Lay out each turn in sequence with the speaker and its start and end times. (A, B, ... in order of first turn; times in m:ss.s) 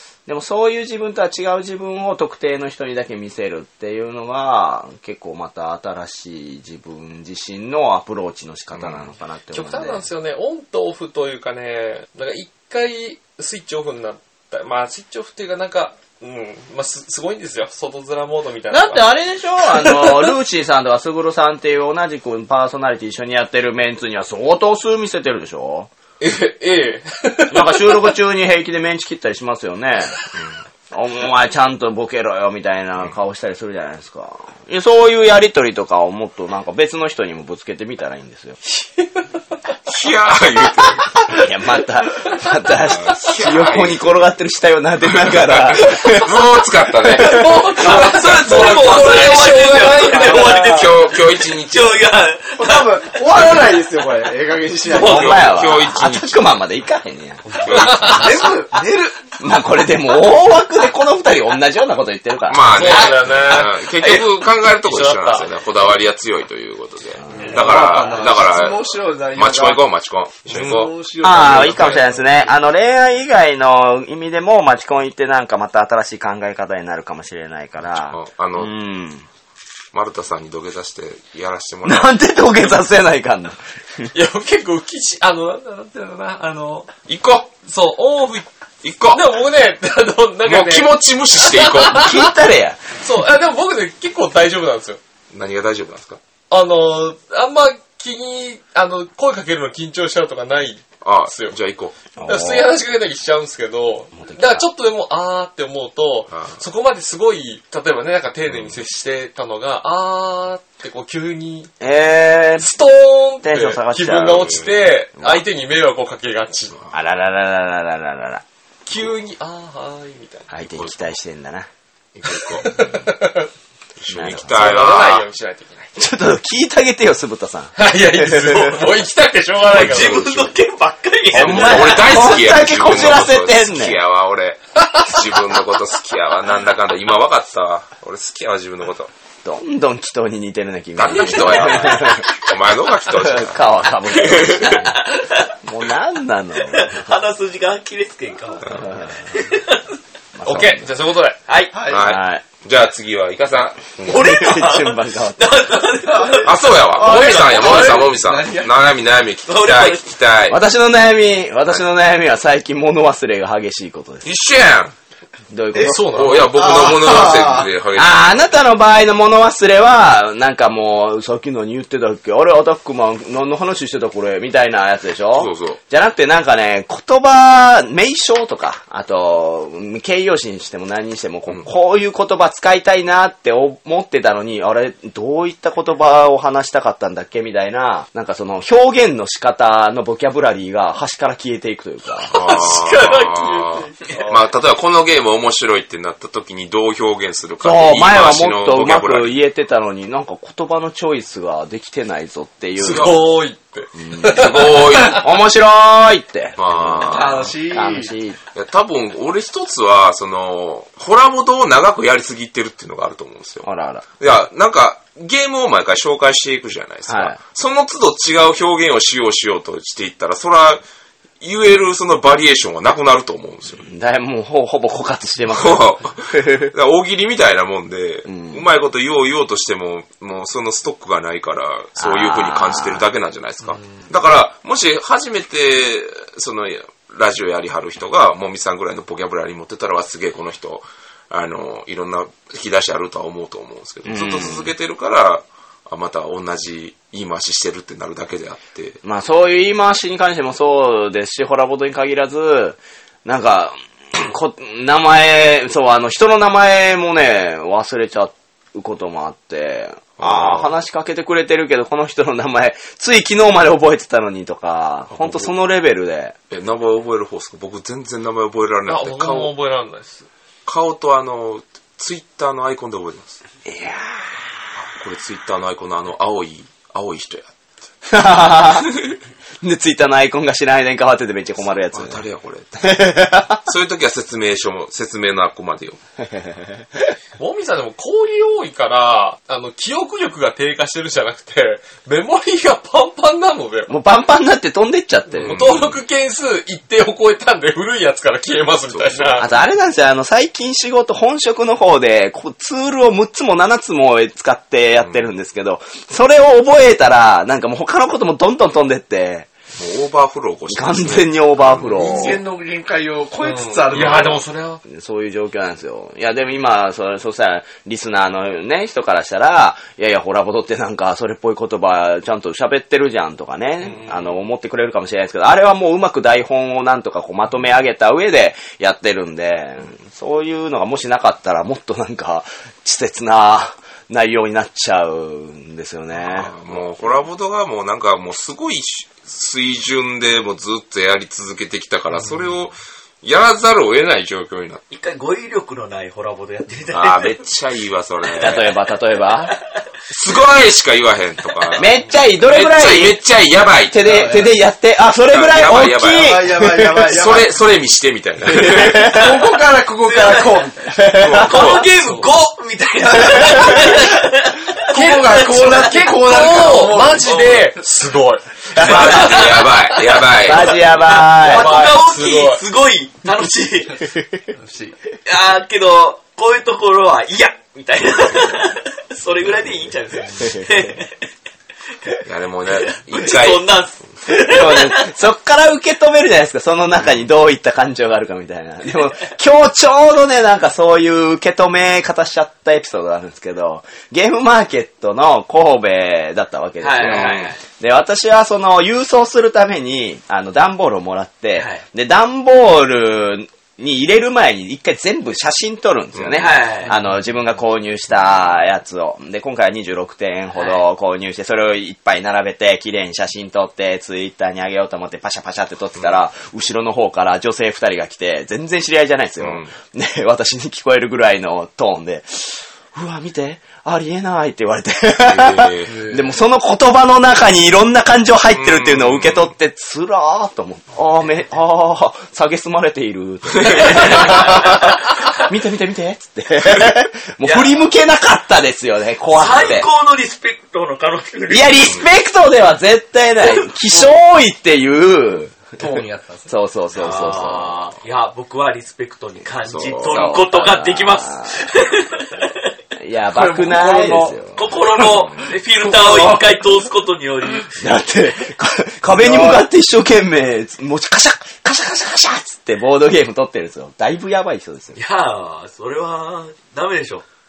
0:00.3-0:10.0 A
0:08.7-0:09.1 B
0:09.5-0:19.1 C
0:18.7-0:25.9 A
0:19.7-0:20.3 C
0:26.2-0:28.1 C
0:27.5-0:30.2 A
0:30.9-0:38.6 A
0:38.7-0:39.1 C
0:39.9-0:41.4 B
0:41.3-0:46.4 A
0:42.8-0:44.2 B
0:45.0-0:49.2 B
0:47.0-0:47.6 A
0:47.1-0:51.0 C
0:47.7-0:53.2 D
0:50.4-0:52.0 B
0:52.6-0:55.6 E
0:54.9-0:57.6 A
0:54.9-0:56.5 B
0:57.5-0:58.5 B
0:57.7-0:58.5 C
0:58.0-0:59.2 E
0:59.4-1:03.0 A
1:02.5-1:10.9 B
1:02.7-1:05.5 C
1:02.9-1:04.2 D
1:07.3-1:07.5 A
1:07.3-1:09.8 E
1:07.5-1:07.8 D
1:10.4-1:12.3 E
1:11.2-1:19.3 A
1:11.4-1:12.0 C
1:17.9-1:18.7 B
1:19.9-1:22.2 B
1:21.8-1:24.1 A
1:24.1-1:26.9 C
1:27.1-1:27.5 B
1:27.6-1:28.5 C
1:28.8-1:29.2 B
1:29.0-1:32.3 C
1:30.4-1:32.1 B
1:31.9-1:32.8 A
1:33.0-1:35.0 C
1:35.3-1:36.2 B
1:36.5-1:41.6 C
1:41.0-1:42.0 B
1:42.2-1:42.7 A
1:42.3-1:51.7 C
1:44.2-1:44.7 A
1:46.3-1:46.6 B
1:48.5-1:48.8 B
1:51.8-1:52.7 A
1:52.6-1:56.7 C
1:53.4-1:54.6 A
1:55.2-1:55.4 A
1:56.9-1:58.4 A
1:58.9-2:00.5 C
2:00.5-2:01.7 A
2:00.6-2:01.1 B
2:02.2-2:03.0 B
2:02.5-2:03.5 C
2:04.0-2:05.2 B
2:04.1-2:04.6 A
2:04.2-2:05.9 C
2:06.0-2:08.9 A
2:07.8-2:10.2 C
2:09.7-2:10.6 B
2:09.7-2:12.4 D
2:11.3-2:19.1 B
2:11.3-2:14.0 A
2:19.4-2:22.3 A
2:21.0-2:24.9 B
2:21.1-2:22.1 C
2:23.2-2:25.0 A
2:24.6-2:25.6 D
2:25.6-2:27.1 A
2:26.6-2:30.0 D
2:28.8-2:29.2 A
2:30.4-2:30.9 A
2:30.4-2:31.4 C
2:31.5-2:31.8 D
2:31.7-2:32.1 E
2:31.9-2:34.3 B
2:31.9-2:32.4 A
2:34.1-2:38.0 D
2:34.1-2:35.4 A
2:36.1-2:36.4 E
2:36.4-2:40.6 B
2:37.0-2:38.0 C
2:37.2-2:38.7 E
2:39.5-2:40.2 D
2:40.5-2:44.3 A
2:44.2-2:44.9 B
2:45.5-2:46.0 A
2:45.8-2:47.7 E
2:45.8-2:46.5 C
2:46.0-2:48.5 B
2:47.9-3:12.4 A
2:55.3-2:55.8 B
3:12.2-3:19.4 B
3:12.3-3:14.5 C
3:17.6-3:23.2 A
3:22.8-3:25.2 C
3:22.8-3:23.2 B
3:24.0-3:28.4 A
3:24.3-3:25.2 B
3:26.6-3:27.6 B
3:27.0-3:28.2 E
3:28.6-3:33.7 B
3:33.6-3:34.0 A
3:34.2-3:40.8 B
3:37.1-3:37.4 A
3:41.4-3:43.9 B
3:43.8-3:46.7 A
3:45.5-4:09.0 B
3:48.3-3:48.6 A
3:52.0-3:53.1 A
4:04.0-4:04.7 A
4:09.0-4:26.4 A
4:20.2-4:20.7 B
4:25.1-4:25.5 B
4:26.5-4:29.5 B
4:28.9-4:30.3 C
4:30.7-4:33.4 B
4:33.7-4:34.4 A
4:34.8-4:37.5 B
4:38.1-4:38.9 A
4:39.6-4:42.2 A
4:41.6-4:46.0 B
4:42.8-4:43.6 A
4:46.2-4:47.1 A
4:47.4-4:53.9 C
4:53.9-4:55.6 A
4:55.3-4:59.5 C
4:55.4-4:56.0 B
4:58.9-4:59.5 B
4:59.4-5:09.5 A
5:05.0-5:05.3 B
5:09.8-5:12.4 B
5:10.7-5:12.4 A
5:11.9-5:14.4 E
5:13.4-5:14.8 C
5:14.0-5:14.3 B
5:14.8-5:36.8 A
5:36.2-5:44.8 B
5:44.9-5:47.4 D
5:46.9-5:48.7 B
5:48.4-5:49.6 A
5:50.1-5:51.9 B
5:51.8-5:53.2 A
5:52.4-5:54.5 B
5:53.9-5:57.2 A
5:54.0-5:54.5 E
5:55.3-5:59.1 B
5:56.1-5:57.5 E
5:58.4-6:01.0 E
5:59.0-5:59.3 D
6:00.0-6:00.7 D
6:00.9-6:01.7 A
6:01.0-6:01.9 B
6:01.4-6:06.0 D
6:02.0-6:02.3 C
6:04.8-6:07.8 E
6:04.9-6:10.6 C
6:08.8-6:10.8 B
6:08.8-6:09.7 D
6:10.4-6:11.8 A
6:10.9-6:14.1 D
6:11.4-6:12.6 C
6:14.2-6:14.4 A
6:14.5-6:14.9 E
6:15.2-6:21.3 D
6:20.4-6:20.9 A
6:22.2-6:23.7 B
6:22.7-6:25.1 D
6:24.3-7:19.9 A
6:36.8-6:37.6 D
6:37.0-6:37.5 B
6:41.6-6:41.8 D
6:46.2-6:46.6 B
6:46.3-6:46.9 D
6:50.5-6:50.8 D
6:59.4-6:59.7 B
7:05.2-7:06.0 B
7:05.9-7:06.3 E
7:08.5-7:09.5 B
7:13.6-7:14.4 B
7:14.0-7:14.8 D
7:17.4-7:17.8 D
7:19.3-7:21.9 D
7:19.5-7:19.8 B
7:21.5-7:25.7 A
7:25.8-7:26.5 E
7:26.5-7:27.9 A
7:27.0-7:32.7 D
7:29.6-7:30.4 B
7:30.1-7:31.6 A
7:33.0-7:34.6 A
7:33.3-7:34.4 E
7:34.6-7:37.8 D
7:35.0-7:35.5 B
7:35.4-7:36.6 E
7:37.8-7:45.0 A
7:39.1-7:39.7 E
7:45.0-7:47.2 D